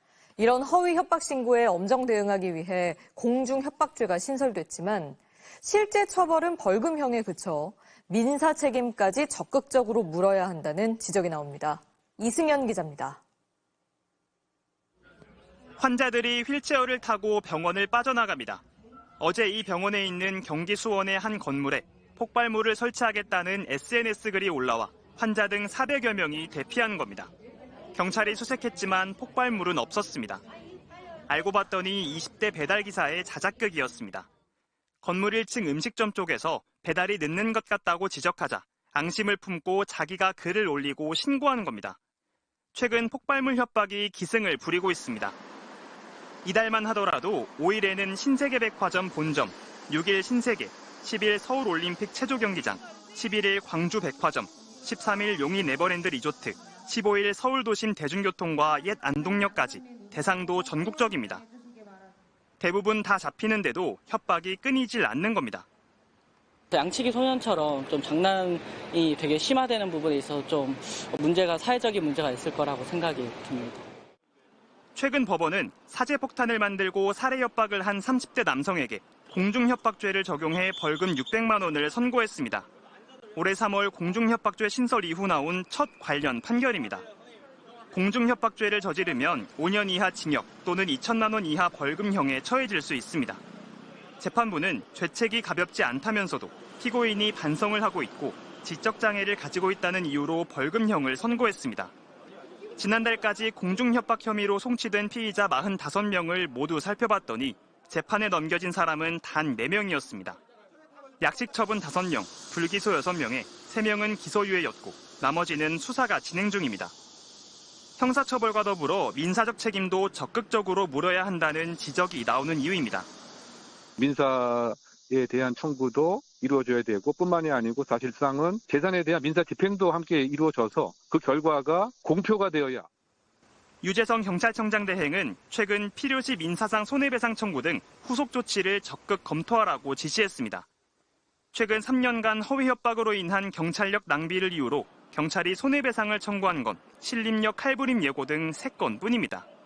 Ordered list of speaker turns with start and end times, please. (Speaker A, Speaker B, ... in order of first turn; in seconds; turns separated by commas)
Speaker A: 0.4-13.2, Speaker B: 15.8-18.6, Speaker B: 19.2-27.3, Speaker B: 27.9-30.4, Speaker B: 31.3-34.3, Speaker B: 35.0-42.0, Speaker B: 42.7-45.4, Speaker B: 46.4-61.4, Speaker B: 62.6-65.6, Speaker C: 66.7-73.9, Speaker B: 74.9-82.7, Speaker B: 83.3-87.0, Speaker B: 87.9-93.4, Speaker B: 94.2-101.9, Speaker B: 102.8-110.4, Speaker B: 111.2-116.9, Speaker B: 118.0-123.1, Speaker D: 124.0-132.9, Speaker B: 133.8-140.7, Speaker B: 141.5-149.5